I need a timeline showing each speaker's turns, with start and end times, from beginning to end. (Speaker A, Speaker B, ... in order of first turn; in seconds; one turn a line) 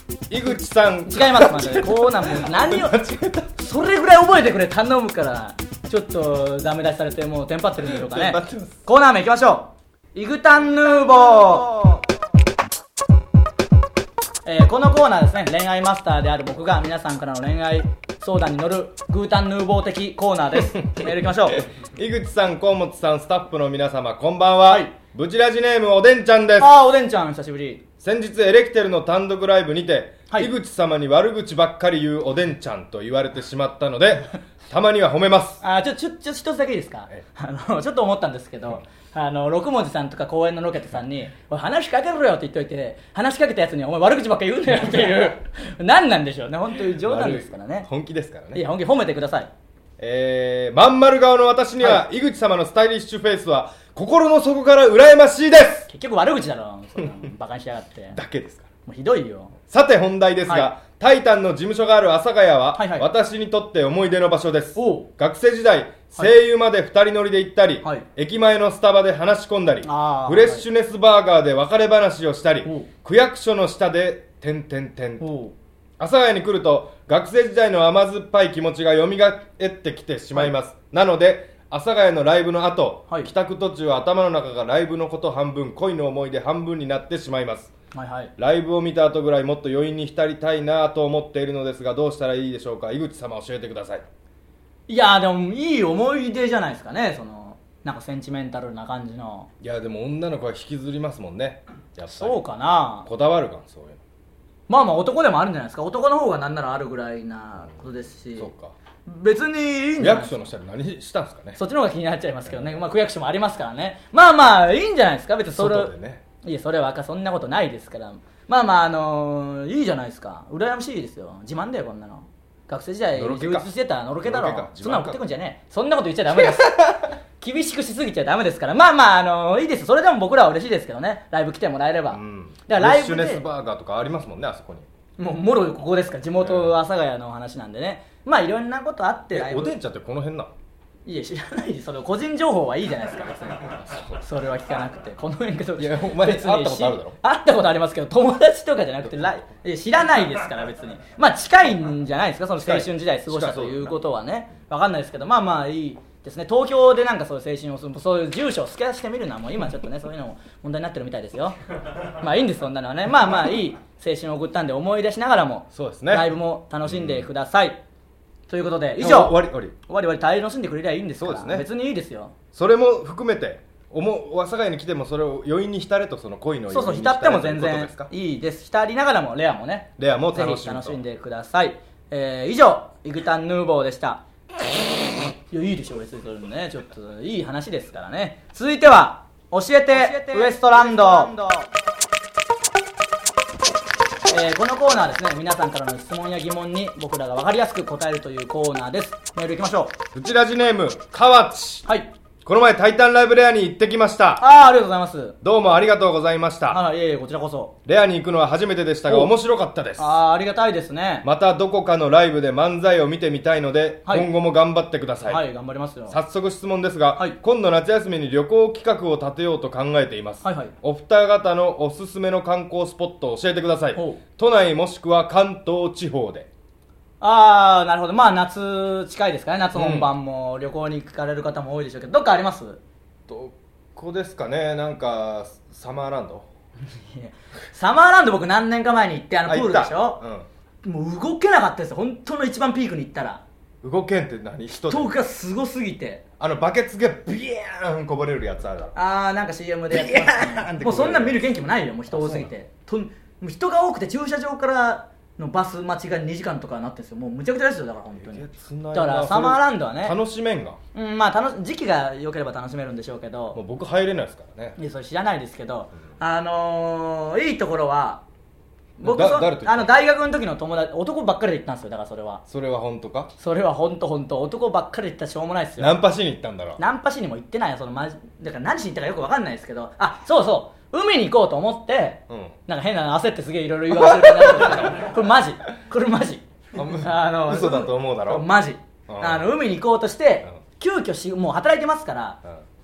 Speaker A: 0.3-3.5
Speaker B: 1.1-3.0
Speaker B: 3.6-11.8
Speaker A: 7.8-8.8
Speaker A: 11.4-12.0
Speaker B: 14.4-21.7
Speaker A: 21.0-26.8
Speaker B: 24.6-24.9
Speaker B: 26.6-27.8
Speaker A: 28.0-35.6
Speaker B: 35.6-47.9
Speaker A: 46.9-48.6
Speaker B: 48.5-49.5
Speaker A: 50.0-55.9
Speaker B: 55.9-58.2
Speaker A: 58.1-58.7
Speaker B: 58.9-59.5
Speaker A: 59.7-75.3
Speaker B: 62.7-63.0
Speaker B: 64.8-65.1
Speaker B: 69.8-70.6
Speaker B: 75.2-75.5
Speaker A: 76.0-87.7
Speaker B: 87.9-88.3
Speaker A: 88.4-94.0
Speaker B: 94.9-99.5
Speaker A: 99.6-102.4
Speaker B: 102.1-103.1
Speaker A: 103.0-104.0
Speaker B: 104.7-108.5
Speaker A: 108.3-108.7
Speaker B: 109.0-110.5
Speaker A: 110.0-111.6
Speaker B: 111.6-133.4
Speaker A: 115.5-116.2
Speaker A: 123.1-123.7
Speaker A: 124.2-125.2
Speaker A: 126.3-127.1
Speaker A: 132.1-134.9
Speaker B: 135.2-139.7
Speaker A: 136.4-136.8
Speaker A: 139.3-140.5
Speaker B: 141.1-167.8
Speaker A: 143.8-144.2
Speaker A: 145.8-147.2
Speaker A: 152.6-154.0
Speaker A: 165.7-166.3
Speaker A: 166.8-167.2
Speaker B: 168.5-172.3
Speaker A: 169.0-169.7
Speaker A: 171.2-171.7
Speaker A: 172.5-178.1
Speaker B: 176.7-184.2
Speaker A: 180.0-181.0
Speaker B: 185.5-191.6
Speaker A: 190.1-191.3
Speaker B: 194.3-199.9
Speaker A: 200.1-201.8
Speaker A: 202.4-204.4
Speaker B: 204.4-205.4
Speaker A: 205.4-206.8
Speaker B: 206.7-207.7
Speaker A: 207.8-210.2
Speaker B: 210.0-211.2
Speaker A: 211.2-215.4
Speaker B: 215.2-216.2
Speaker A: 216.1-226.5
Speaker B: 220.4-220.7
Speaker B: 223.9-224.2
Speaker B: 227.2-232.8
Speaker A: 229.7-230.1
Speaker A: 233.3-236.5
Speaker B: 237.1-240.2
Speaker A: 239.4-240.5
Speaker B: 240.8-243.4
Speaker A: 243.8-245.1
Speaker B: 244.9-246.2
Speaker A: 246.4-248.9
Speaker B: 248.9-260.2
Speaker A: 249.9-251.4
Speaker A: 252.1-252.5
Speaker A: 258.1-260.8
Speaker B: 260.9-263.6
Speaker A: 263.5-264.8
Speaker B: 264.8-268.2
Speaker B: 269.0-272.4
Speaker A: 269.0-269.9
Speaker A: 272.5-273.3
Speaker B: 273.4-275.9
Speaker A: 275.8-276.8
Speaker B: 276.8-292.4
Speaker A: 282.3-282.6
Speaker A: 283.9-285.0
Speaker A: 286.7-288.5
Speaker A: 289.1-289.6